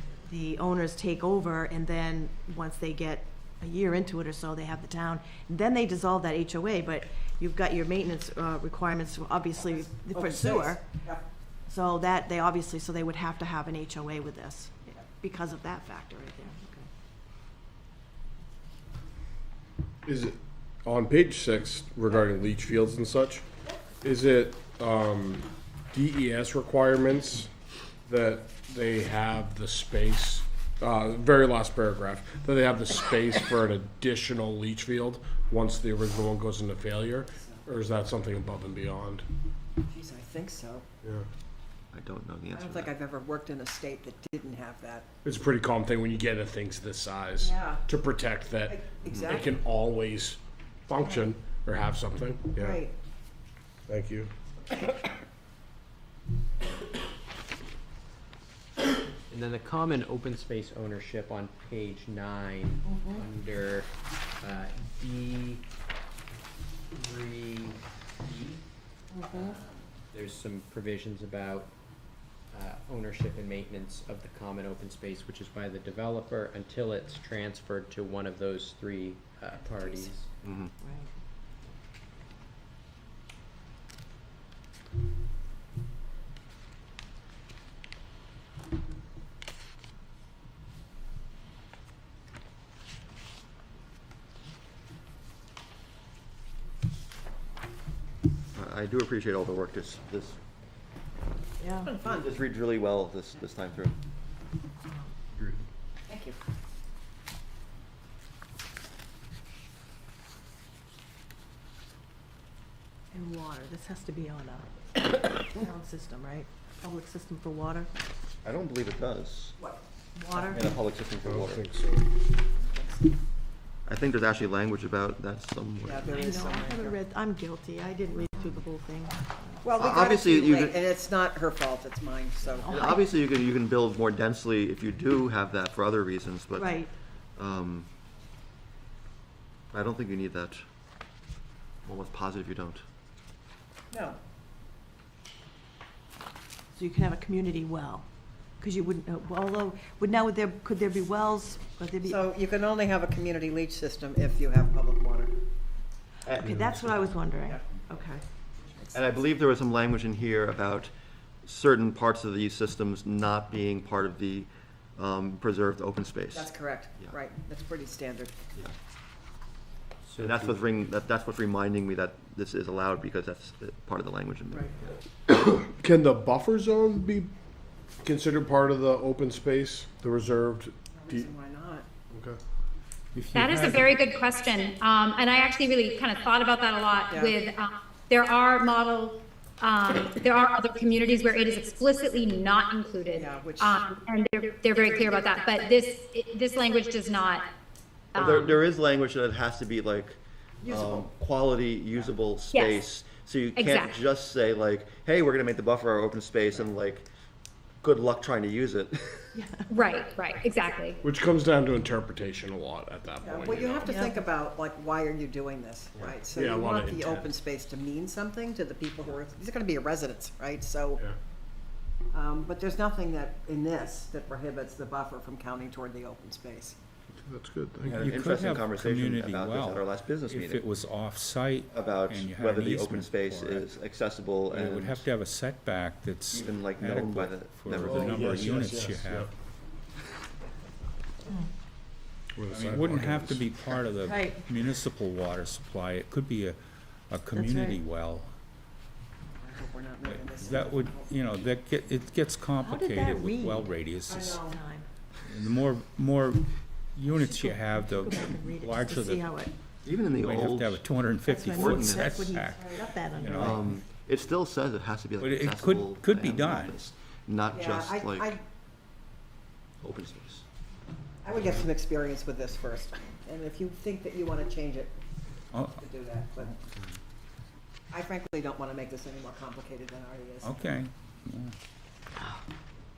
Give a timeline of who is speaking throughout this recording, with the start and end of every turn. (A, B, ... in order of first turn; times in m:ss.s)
0:00.3-0:10.8 A
0:10.1-0:11.3 B
0:11.7-0:16.9 A
0:20.0-0:23.4 C
0:24.0-0:27.5 C
0:28.1-0:39.3 C
0:37.4-0:37.7 B
0:39.9-0:40.9 B
0:41.9-0:42.9 D
0:42.6-0:45.1 B
0:45.2-0:52.8 C
0:47.4-0:47.8 B
0:48.7-0:49.6 B
0:52.6-0:53.0 B
0:53.9-0:54.3 C
0:59.3-1:03.9 E
1:04.4-1:05.6 E
1:06.9-1:08.6 E
1:09.3-1:11.7 E
1:12.5-1:20.3 E
1:19.7-1:20.1 B
1:20.4-1:20.7 D
1:20.8-1:21.1 A
1:38.5-1:40.4 D
1:41.6-1:41.9 A
1:41.8-1:42.2 B
1:42.0-1:44.0 D
1:46.1-1:46.4 B
1:53.1-1:54.7 A
1:55.2-1:57.9 A
1:58.4-1:59.6 D
2:00.2-2:00.6 A
2:00.3-2:01.6 D
2:01.2-2:02.1 C
2:02.6-2:03.1 B
2:03.9-2:06.1 D
2:05.9-2:07.0 B
2:06.1-2:09.6 A
2:09.6-2:12.7 B
2:09.8-2:10.8 D
2:12.6-2:13.0 A
2:12.7-2:17.9 D
2:16.6-2:16.9 A
2:19.7-2:20.6 D
2:21.8-2:22.8 D
2:23.9-2:24.2 B
2:26.8-2:28.1 A
2:28.6-2:32.2 A
2:32.1-2:35.4 B
2:36.3-2:37.1 D
2:36.4-2:38.2 A
2:38.9-2:46.5 D
2:46.3-2:48.4 B
2:50.1-2:50.6 E
2:50.2-2:54.9 D
2:55.3-2:57.3 C
2:58.0-3:01.3 C
3:00.9-3:01.9 B
3:02.1-3:02.4 C
3:03.2-3:04.1 F
3:03.3-3:17.5 G
3:13.2-3:13.8 B
3:18.1-3:18.6 G
3:18.2-3:27.1 D
3:20.6-3:21.1 B
3:22.5-3:22.8 G
3:23.6-3:24.0 G
3:27.8-3:29.4 D
3:29.4-3:29.7 A
3:29.7-3:31.0 G
3:31.0-3:33.8 C
3:33.2-3:41.0 B
3:33.8-3:34.2 A
3:36.3-3:37.3 C
3:42.1-3:46.8 B
3:47.2-3:48.1 C
3:47.9-3:53.7 F
3:48.0-3:50.6 D
3:51.7-3:55.1 D
3:54.5-3:59.3 F
3:56.3-3:58.7 D
3:58.0-3:59.3 C
4:02.4-4:03.5 C
4:02.5-4:06.6 F
4:04.0-4:04.4 A
4:07.1-4:08.3 F
4:07.3-4:07.8 A
4:09.4-4:11.4 B
4:10.1-4:14.4 F
4:12.6-4:13.7 A
4:14.1-4:14.5 B
4:14.3-4:14.8 A
4:15.2-4:19.4 F
4:17.1-4:19.5 A
4:19.8-4:20.8 D
4:20.1-4:23.7 F
4:21.2-4:23.7 A
4:21.5-4:22.2 D
4:23.4-4:28.4 D
4:25.2-4:26.8 F
4:27.5-4:28.4 B
4:29.8-4:30.4 D
4:31.2-4:34.9 B
4:35.5-4:35.8 F
4:35.8-4:36.5 B
4:37.9-4:40.5 B
4:40.4-4:41.5 F